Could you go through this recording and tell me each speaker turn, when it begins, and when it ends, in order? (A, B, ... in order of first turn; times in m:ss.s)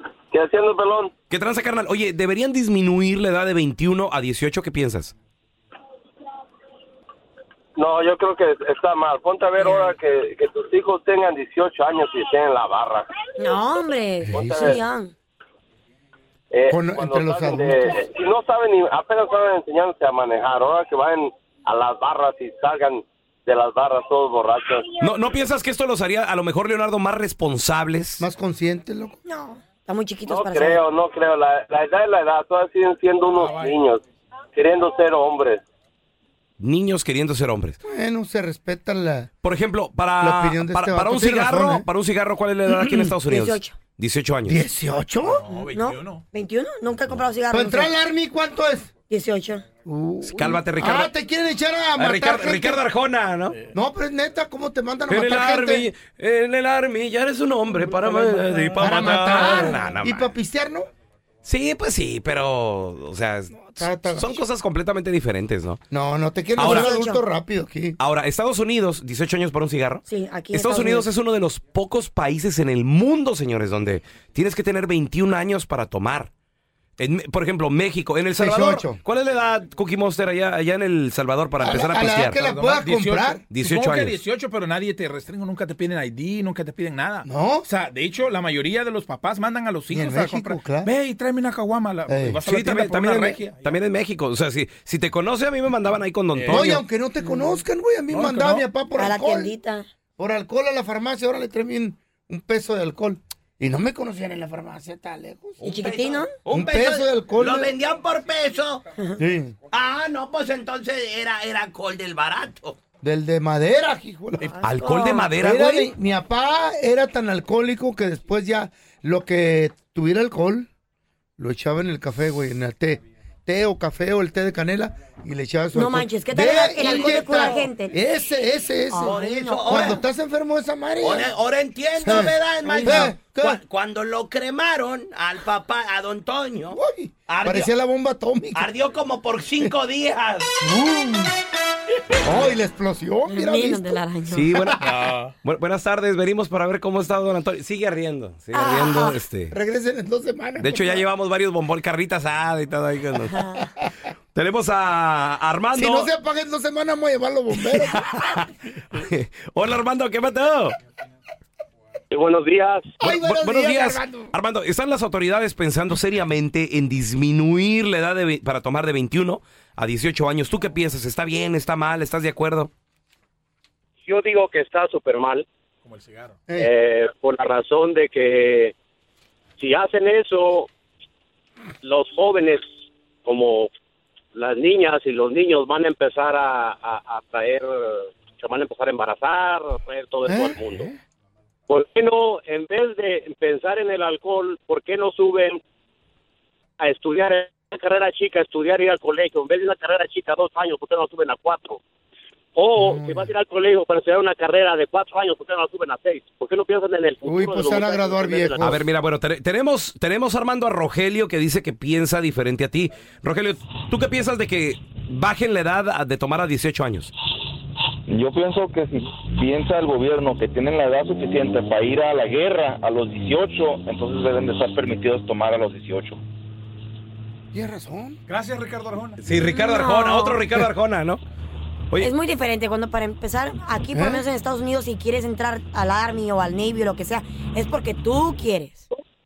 0:00.3-0:01.1 A
0:01.3-0:05.1 B
0:07.8-0:13.0 A
0:09.6-0:09.9 C
0:13.4-0:15.1 C
0:14.3-0:14.8 D
0:14.4-0:14.7 A
0:16.5-0:24.9 A
0:16.7-0:17.9 D
0:25.0-0:28.2 B
0:28.2-0:29.2 D
0:29.2-0:30.8 C
0:30.3-0:34.0 A
0:33.4-0:33.8 E
0:34.6-0:35.6 A
0:36.6-0:37.8 B
0:37.8-0:39.3 D
0:39.4-0:44.6 B
0:40.2-0:41.9 D
0:42.7-0:43.2 D
0:43.3-0:43.8 C
0:44.4-0:45.4 D
0:45.2-0:46.2 E
0:45.5-0:48.0 C
0:47.5-0:48.9 D
0:49.1-0:49.6 C
0:49.8-0:52.8 D
0:50.2-0:51.1 B
0:52.0-0:53.6 B
0:53.7-0:55.9 D
0:55.1-1:00.4 B
0:58.8-1:00.9 D
1:01.4-1:05.8 B
1:03.6-1:04.4 D
1:05.9-1:08.0 D
1:06.6-1:06.9 B
1:06.6-1:07.2 C
1:08.0-1:16.3 B
1:10.1-1:11.1 C
1:17.0-1:22.4 B
1:18.4-1:19.0 D
1:21.6-1:23.4 D
1:22.4-1:33.6 E
1:23.5-1:24.2 B
1:27.2-1:27.7 D
1:29.9-1:30.9 D
1:32.1-1:32.4 D
1:32.5-1:36.8 B
1:36.4-1:36.8 E
1:36.5-1:39.5 D
1:37.2-1:37.6 C
1:38.1-1:38.7 E
1:39.0-1:39.9 C
1:40.2-1:45.7 D
1:45.6-1:48.8 F
1:45.6-1:46.4 C
1:46.5-1:47.8 D
1:49.2-1:49.6 D
1:49.7-1:52.8 F
1:53.0-1:54.5 D
1:54.5-1:55.4 C
1:54.6-1:55.9 B
1:55.4-2:00.7 D
2:01.4-2:11.3 D
2:05.7-2:08.0 C
2:08.9-2:10.0 C
2:09.0-2:10.0 F
2:11.0-2:16.8 F
2:12.0-2:13.6 D
2:12.6-2:13.1 C
2:16.7-2:18.7 D
2:17.3-2:17.7 F
2:18.6-2:20.5 F
2:20.6-2:21.3 D
2:22.2-2:24.0 D
2:23.3-2:24.6 C
2:24.3-2:29.6 B
2:24.8-2:25.3 E
2:28.5-2:29.2 C
2:29.5-2:31.0 D
2:30.6-2:33.5 B
2:33.4-2:33.6 C
2:34.3-2:36.1 B
2:35.7-2:38.4 D
2:37.6-2:40.8 B
2:42.1-2:43.0 G
2:43.0-2:52.7 B
2:43.0-2:44.3 D
2:54.1-2:55.5 G
2:55.8-2:56.4 E
2:56.6-2:58.7 G
2:59.6-3:00.7 G
3:01.8-3:02.6 G
3:03.2-3:03.7 G
3:04.4-3:10.9 G
3:10.2-3:11.0 D
3:11.7-3:15.6 G
3:16.8-3:21.8 G
3:22.6-3:28.8 G
3:22.8-3:23.3 D
3:27.2-3:28.8 D
3:28.6-3:37.1 B
3:38.1-3:46.2 H
3:47.5-3:48.2 D
3:48.3-3:49.2 E
3:49.2-3:51.2 B
3:49.4-3:50.5 C
3:52.0-3:58.9 C
3:53.9-3:54.2 D